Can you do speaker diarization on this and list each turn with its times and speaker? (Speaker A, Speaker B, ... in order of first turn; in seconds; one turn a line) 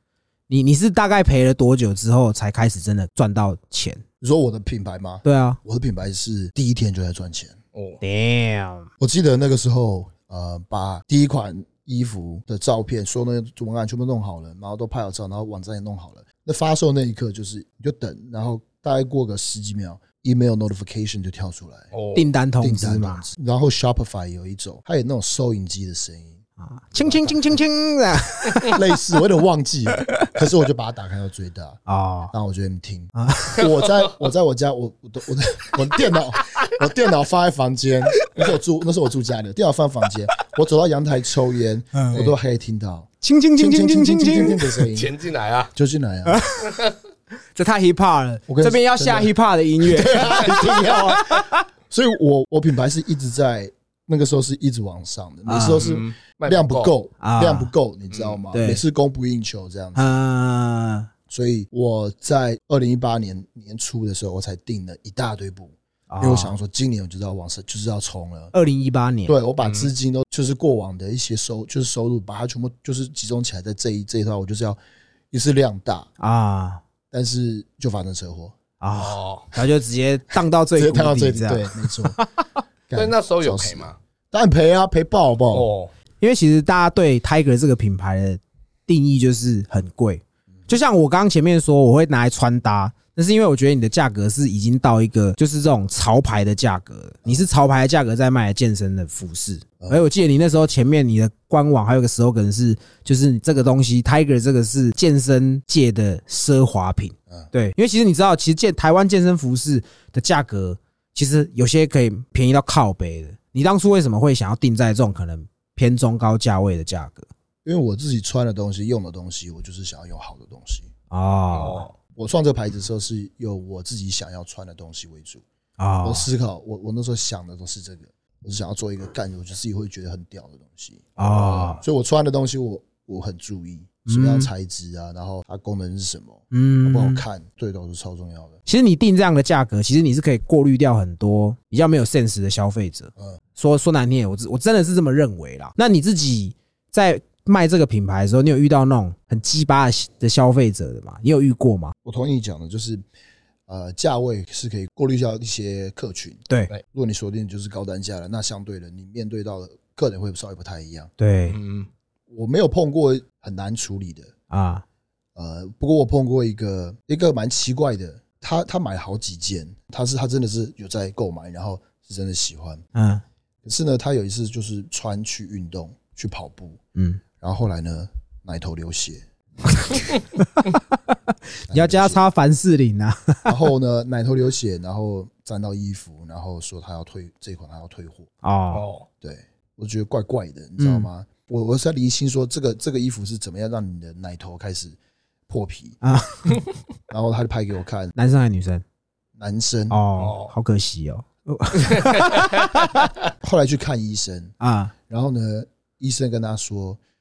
Speaker A: 0.5-4.0
Speaker B: 4.2-7.6
Speaker A: 5.2-5.6
Speaker C: 7.7-8.0
Speaker A: 8.0-8.9
Speaker B: 9.0-21.9
Speaker C: 21.9-22.2
Speaker A: 22.1-23.2
Speaker B: 22.6-26.4
Speaker A: 26.6-28.8
Speaker B: 26.9-27.6
Speaker B: 28.7-31.8
Speaker A: 31.9-32.3
Speaker B: 32.3-45.1
Speaker A: 33.2-33.7
Speaker A: 41.9-42.2
Speaker A: 43.2-44.8
Speaker C: 44.9-45.7
Speaker B: 45.7-46.4
Speaker A: 46.3-46.8
Speaker A: 47.5-51.6
Speaker B: 48.5-60.1
Speaker A: 55.5-55.8
Speaker C: 55.8-56.9
Speaker A: 57.2-57.7
Speaker C: 58.1-58.4
Speaker A: 58.5-58.8
Speaker A: 60.0-61.1
Speaker B: 61.3-68.5
Speaker A: 66.1-66.5
Speaker A: 68.5-69.3
Speaker B: 69.3-74.8
Speaker C: 69.6-69.9
Speaker B: 75.3-76.1
Speaker A: 76.2-76.8
Speaker B: 77.1-78.5
Speaker A: 78.8-82.3
Speaker C: 79.0-79.5
Speaker B: 80.8-82.2
Speaker B: 82.9-85.7
Speaker C: 82.9-84.0
Speaker C: 85.5-85.9
Speaker A: 86.2-117.3
Speaker B: 117.6-120.9
Speaker A: 121.1-121.9
Speaker C: 121.5-121.9
Speaker B: 122.2-125.4
Speaker A: 125.8-126.3
Speaker B: 126.0-138.6
Speaker A: 131.2-131.8
Speaker C: 131.4-131.7
Speaker A: 134.1-134.5
Speaker A: 136.5-137.2
Speaker A: 138.7-151.9
Speaker B: 152.0-153.0
Speaker B: 153.7-161.1
Speaker A: 161.2-161.6
Speaker C: 161.5-161.9
Speaker B: 162.3-164.3
Speaker A: 164.5-164.8
Speaker B: 165.3-172.8
Speaker A: 172.9-173.2
Speaker B: 173.6-176.8
Speaker A: 176.9-177.2
Speaker B: 177.4-179.2
Speaker A: 179.7-180.9
Speaker A: 181.6-183.5
Speaker B: 181.7-182.2
Speaker B: 183.4-188.3
Speaker A: 188.4-188.8
Speaker C: 188.7-189.1
Speaker B: 189.2-195.0
Speaker A: 190.8-191.1
Speaker B: 195.5-196.0
Speaker A: 196.0-196.6
Speaker B: 197.1-198.1
Speaker A: 198.2-198.8
Speaker B: 199.4-200.0
Speaker A: 199.9-203.1
Speaker C: 200.2-200.5
Speaker C: 201.9-202.4
Speaker B: 203.4-204.5
Speaker A: 204.6-204.9
Speaker B: 205.1-207.0